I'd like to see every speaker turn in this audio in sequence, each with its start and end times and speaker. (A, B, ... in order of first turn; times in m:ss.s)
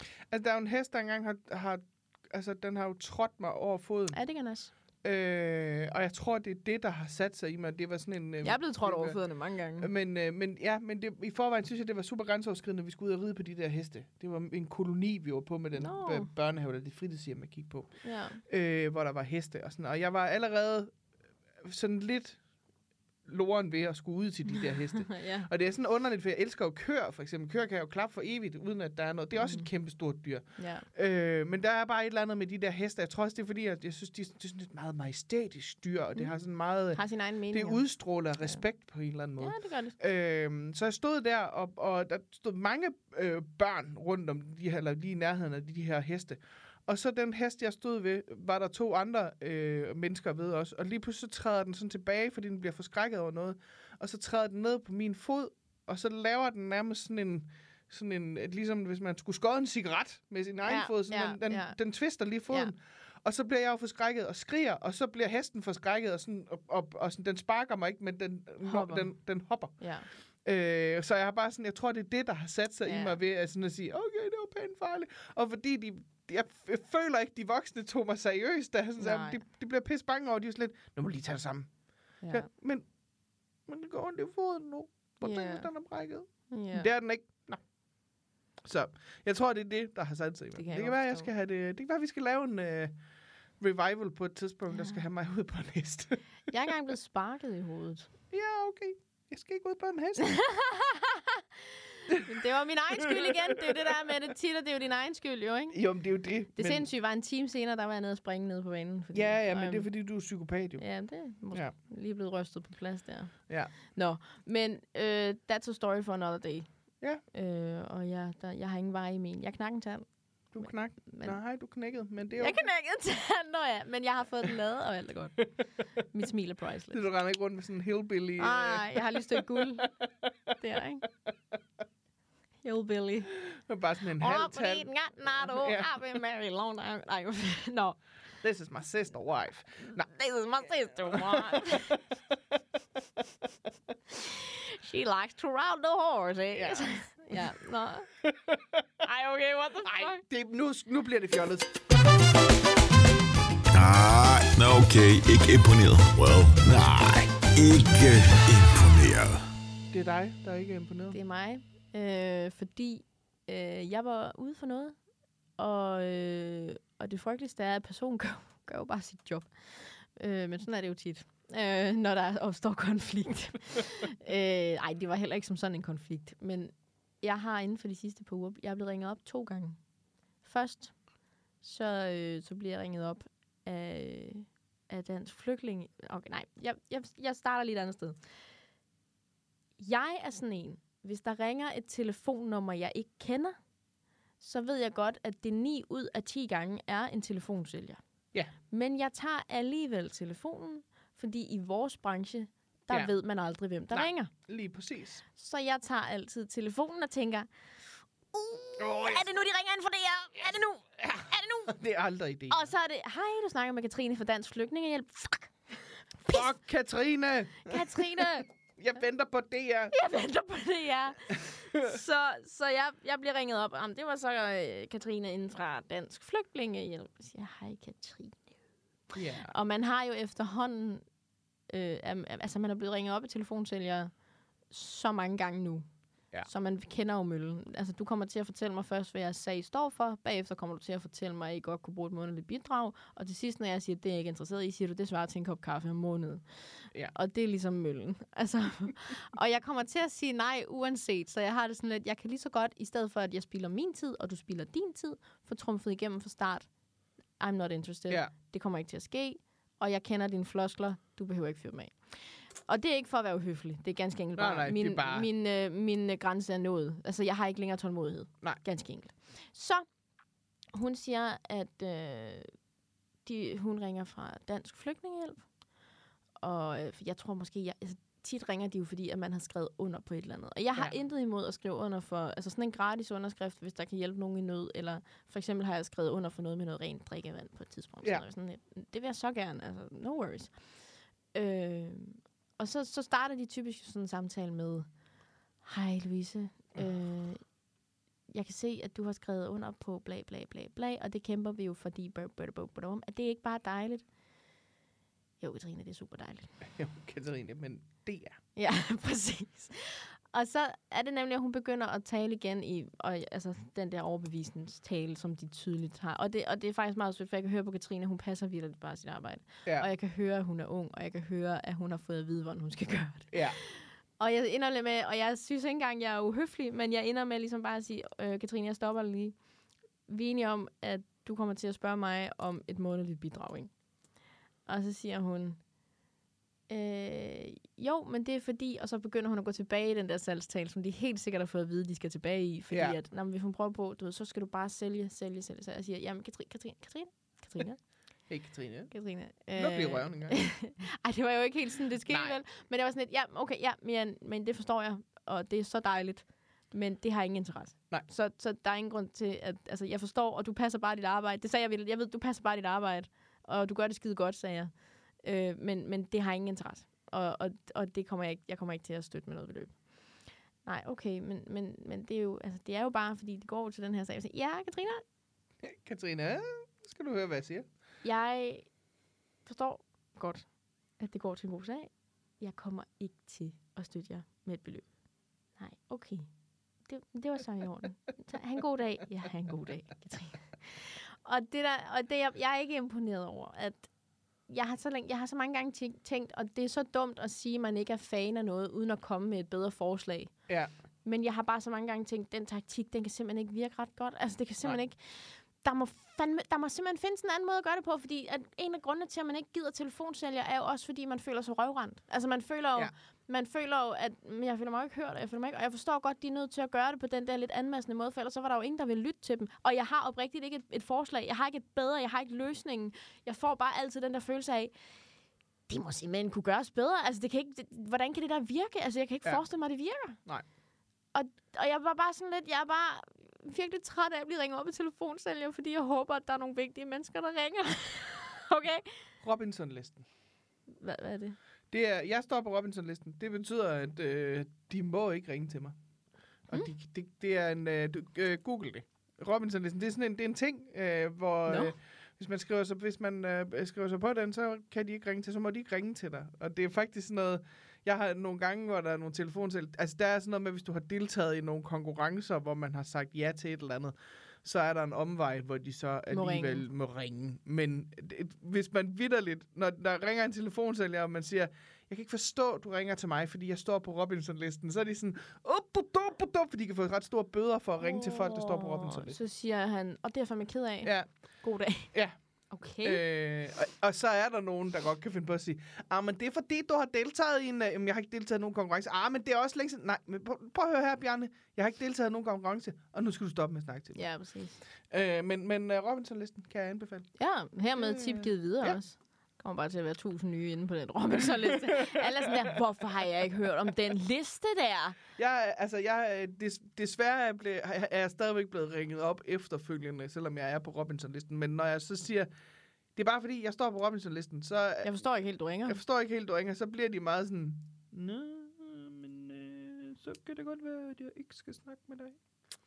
0:00.2-0:04.2 A
0:04.1-0:04.7 B
0:05.0-0:09.2 A
0:08.4-0:09.9 B
0:09.8-0:21.0 A
0:15.8-0:16.3 B
0:18.0-0:18.4 B
0:21.6-0:22.4 A
0:23.2-0:37.0 A
0:25.0-0:25.5 B
0:29.4-0:29.7 B
0:30.6-0:30.9 B
0:36.9-0:37.8 B
0:37.5-1:09.8 A
0:39.4-0:40.0 B
1:00.6-1:01.8 B
1:08.6-1:09.1 B
1:09.7-1:10.1 B
1:10.3-1:22.9 A
1:12.9-1:13.2 B
1:19.0-1:19.4 B
1:22.2-1:22.5 B
1:23.7-1:27.6 A
1:25.2-1:25.7 B
1:26.3-1:26.9 B
1:28.6-1:32.9 A
1:30.6-1:31.3 B
1:33.6-1:36.3 A
1:34.7-1:35.0 B
1:36.5-1:38.1 B
1:38.3-1:40.4 A
1:40.2-1:41.4 B
1:42.1-1:45.8 B
1:43.0-1:43.9 A
1:45.7-1:46.9 A
1:46.6-1:49.9 B
1:49.1-1:50.8 A
1:50.8-1:56.7 B
1:53.5-1:53.7 A
1:57.3-2:00.1 B
2:00.5-2:02.6 A
2:00.6-2:01.4 B
2:02.4-2:07.1 B
2:06.9-2:10.3 A
2:08.4-2:09.9 B
2:10.6-2:11.1 B
2:12.6-2:13.3 B
2:13.3-2:15.9 A
2:14.2-2:18.0 B
2:18.4-2:20.1 A
2:20.0-2:22.0 B
2:21.1-2:22.0 A
2:24.1-2:28.1 B
2:26.5-2:26.9 A
2:29.0-2:30.2 B
2:29.8-2:31.7 A
2:33.7-2:39.5 C
2:39.9-2:41.2 A
2:41.1-2:45.0 B
2:45.6-2:59.8 B
3:00.4-3:01.0 B
3:01.6-3:08.2 B
3:09.8-3:13.6 B
3:14.4-3:18.0 B
3:18.7-3:24.3 B
3:23.9-3:25.2 A
3:25.4-3:27.5 B
3:28.3-3:31.8 B
3:28.8-3:29.3 A
3:31.7-3:32.7 A
3:32.5-3:35.5 B
3:36.2-3:38.2 A
3:37.7-3:38.5 B
3:38.8-3:39.9 A
3:39.9-3:48.4 B
3:41.3-3:41.9 A
3:49.1-3:51.0 B
3:49.2-3:49.5 A
3:51.7-3:54.1 B
3:54.7-3:55.9 B
3:56.5-4:16.7 B
4:17.4-4:29.9 B
4:24.4-4:25.3 A
4:30.7-4:32.5 B
4:33.2-4:35.5 B
4:36.4-4:50.5 B
4:51.3-4:54.9 B
4:55.6-4:57.4 B
4:58.3-5:04.0 B
5:05.4-5:06.5 B
5:06.7-5:08.4 A
5:08.6-5:29.4 B
5:23.3-5:23.6 A
5:30.1-5:33.7 B
5:34.7-5:35.6 B
5:36.7-5:47.8 B
5:42.7-5:43.0 A
5:48.3-5:48.9 A
5:48.9-6:04.7 B
5:49.6-5:50.5 A
5:52.1-5:52.4 A
6:05.2-6:09.8 B
6:10.6-6:15.0 B
6:15.6-6:17.7 A
6:18.0-6:18.7 B
6:19.5-6:20.5 B
6:21.0-6:24.9 B
6:25.6-6:26.3 B
6:26.9-6:33.9 B
6:34.5-6:40.3 B
6:41.0-7:04.7 B
7:05.7-7:10.2 B
7:11.1-7:19.0 B
7:19.2-7:20.1 A
7:20.8-7:21.4 B
7:21.7-7:25.8 A
7:26.5-7:59.2 A
7:31.5-7:31.7 B
7:46.1-7:46.6 B
7:57.8-8:01.9 B
8:00.8-8:01.1 A
8:02.5-8:03.0 B
8:02.8-8:14.0 A
8:14.0-8:14.6 B
8:14.9-8:17.1 A
8:17.2-8:25.0 B
8:17.8-8:18.8 A
8:21.8-8:22.3 A
8:25.2-8:32.3 A
8:33.0-8:34.9 A
8:34.8-8:35.8 B
8:35.7-8:42.2 A